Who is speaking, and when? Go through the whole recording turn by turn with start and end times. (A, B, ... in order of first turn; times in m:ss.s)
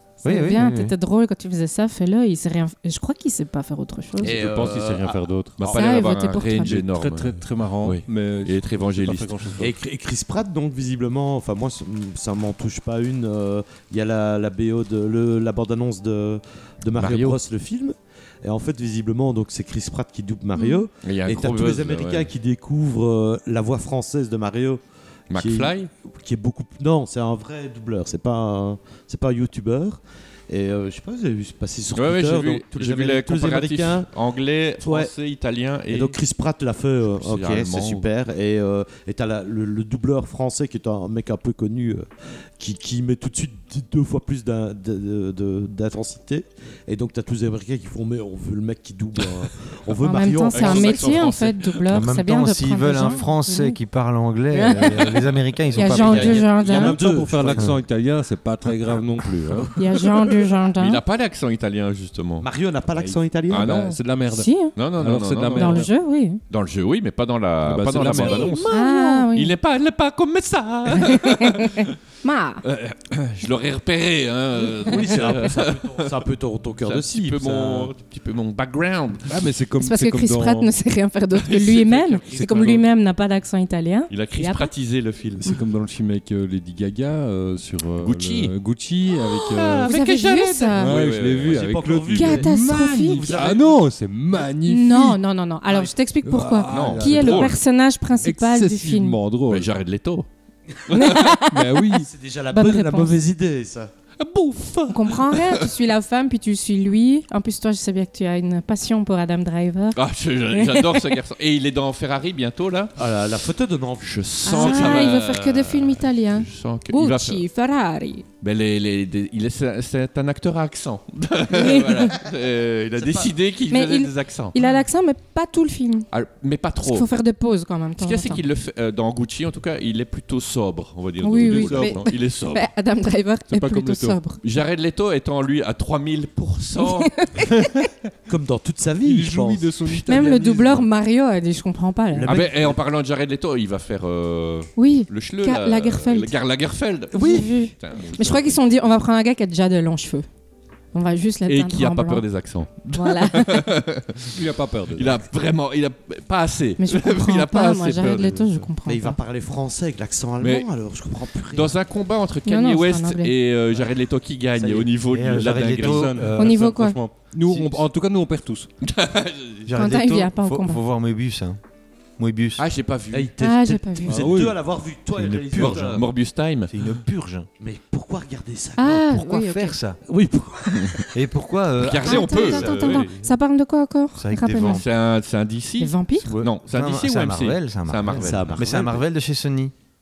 0:00.2-0:04.4 A
0:00.2-0:00.9 B
0:04.2-0:05.7 C
0:04.2-0:05.8 D
0:05.6-0:09.5 E
0:05.7-0:06.8 A
0:06.6-0:09.7 C
0:09.6-0:24.8 D
0:17.0-0:17.4 E
0:20.6-0:20.8 A
0:21.0-0:22.3 E
0:25.3-0:25.9 E
0:25.3-0:34.1 D
0:31.9-0:36.2 E
0:34.8-0:35.1 D
0:35.9-0:51.2 D
0:37.2-0:38.1 E
0:50.0-0:53.8 A
0:50.5-0:51.8 E
0:51.9-0:56.6 B
0:54.5-0:55.2 A
0:55.7-0:57.0 A
0:55.8-0:57.7 D
0:56.6-0:59.8 C
0:59.8-1:01.0 A
1:00.7-1:02.5 E
1:02.4-1:03.7 D
1:02.9-1:05.9 C
1:03.5-1:04.0 E
1:04.3-1:04.7 A
1:04.8-1:05.9 E
1:05.5-1:06.4 A
1:06.4-1:11.9 E
1:07.6-1:08.7 C
1:08.7-1:09.5 A
1:11.0-1:12.6 A
1:12.6-1:16.2 E
1:14.8-1:17.9 D
1:16.8-1:19.4 E
1:19.3-1:20.7 C
1:19.8-1:24.7 A
1:21.3-1:22.8 E
1:22.3-1:22.8 C
1:24.1-1:25.5 E
1:25.4-1:29.9 C
1:28.0-1:28.5 E
1:29.1-1:31.7 E
1:29.9-1:30.9 A
1:30.7-1:35.2 C
1:31.3-1:33.7 D
1:32.1-1:33.2 A
1:34.7-1:39.2 A
1:36.2-1:37.6 C
1:36.7-1:37.6 E
1:38.2-1:39.7 C
1:39.5-1:40.3 E
1:40.9-1:41.3 E
1:40.9-1:41.9 A
1:41.5-1:42.1 C
1:42.0-1:43.9 D
1:42.5-1:43.2 A
1:44.2-1:45.8 E
1:44.9-1:50.0 A
1:49.9-1:53.0 E
1:50.5-1:51.1 A
1:53.0-1:55.2 D
1:54.0-1:57.4 E
1:54.4-1:58.2 A
1:58.4-2:04.6 E
2:01.5-2:02.1 A
2:03.0-2:03.3 D
2:03.7-2:06.1 A
2:06.1-2:07.1 E
2:06.8-2:08.4 A
2:08.0-2:12.7 E
2:11.2-2:14.4 A
2:11.4-2:12.0 C
2:13.5-2:14.2 C
2:14.4-2:17.3 E
2:16.8-2:17.5 A
2:18.3-2:19.8 D
2:19.0-2:20.9 C
2:20.1-2:22.4 A
2:22.1-2:22.8 D
2:22.3-2:28.6 E
2:24.8-2:26.3 A
2:27.1-2:30.2 A
2:28.0-2:28.4 C
2:30.9-2:32.3 A
2:31.5-2:38.5 E
2:32.9-2:33.7 A
2:34.3-2:35.2 C
2:36.8-2:39.2 A
2:38.8-2:41.8 D
2:40.4-2:40.8 E
2:41.3-2:46.2 E
2:42.4-2:43.3 A
2:44.6-2:44.9 D
2:45.0-2:46.7 B
2:45.7-2:48.7 C
2:46.4-2:47.0 A
2:47.5-2:47.8 B
2:48.8-2:49.7 E
2:49.6-2:51.6 B
2:49.7-2:50.8 A
2:52.2-2:52.6 B
2:52.6-2:53.3 E
2:53.1-2:56.0 D
2:53.4-2:54.2 A
2:54.0-2:54.6 C
2:55.1-2:56.1 B
2:55.6-2:56.9 E
2:56.7-2:57.5 B
2:57.6-2:59.0 D
2:58.8-2:59.8 A
2:58.9-3:00.0 B
3:00.0-3:01.0 D
3:00.7-3:01.0 E
3:01.1-3:03.0 B
3:01.8-3:03.2 E
3:02.0-3:04.8 A
3:04.1-3:04.8 B
3:04.6-3:08.6 E
3:05.8-3:06.3 A
3:06.2-3:09.7 B
3:08.1-3:09.0 D